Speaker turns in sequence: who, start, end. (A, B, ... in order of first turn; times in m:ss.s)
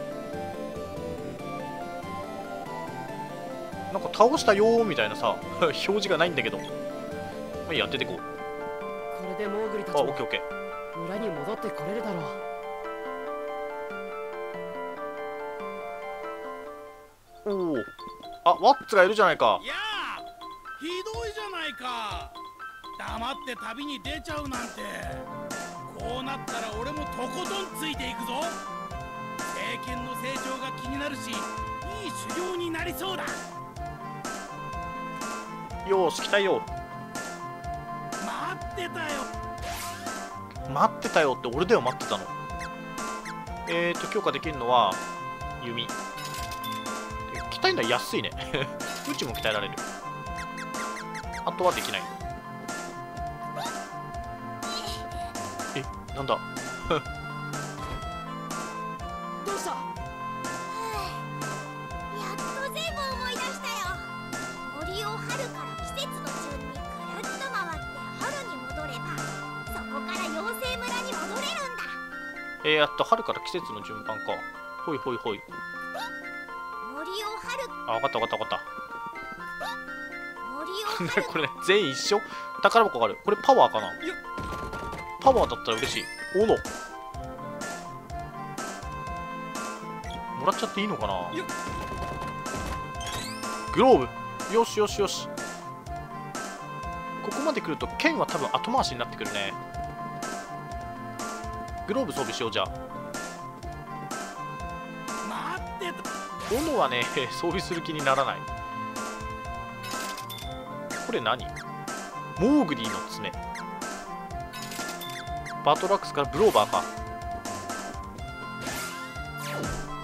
0:03.9-0:06.7 A
0:07.6-0:08.2 A
0:09.1-0:10.2 B
0:09.9-0:10.4 A
0:10.9-0:12.4 B
0:17.4-0:17.9 A
0:18.4-0:19.6 A
0:19.6-0:22.4 C
0:23.0-0:25.3 C
0:25.9-0:28.6 C
0:29.5-0:33.4 C
0:35.8-0:36.7 A
0:38.2-0:39.3 C
0:40.6-0:42.3 A
0:43.6-0:45.0 A
0:45.6-0:45.9 A
0:47.3-0:49.8 A
0:51.4-0:52.2 A
0:54.6-0:55.3 D
0:55.7-0:57.0 A
0:59.4-0:59.9 B
1:00.7-1:01.3 D
1:02.1-1:12.0 D
1:12.6-1:15.4 A
1:16.8-1:17.7 D
1:17.9-1:18.6 A
1:20.4-1:21.4 D
1:20.9-1:24.0 A
1:25.2-1:26.6 A
1:30.3-1:31.4 A
1:33.7-1:35.3 A
1:37.2-1:39.6 A
1:41.9-1:42.7 A
1:45.2-1:46.0 C
1:46.5-1:48.5 A
1:51.0-1:51.5 A
1:52.4-1:53.4 A
1:55.6-1:56.9 A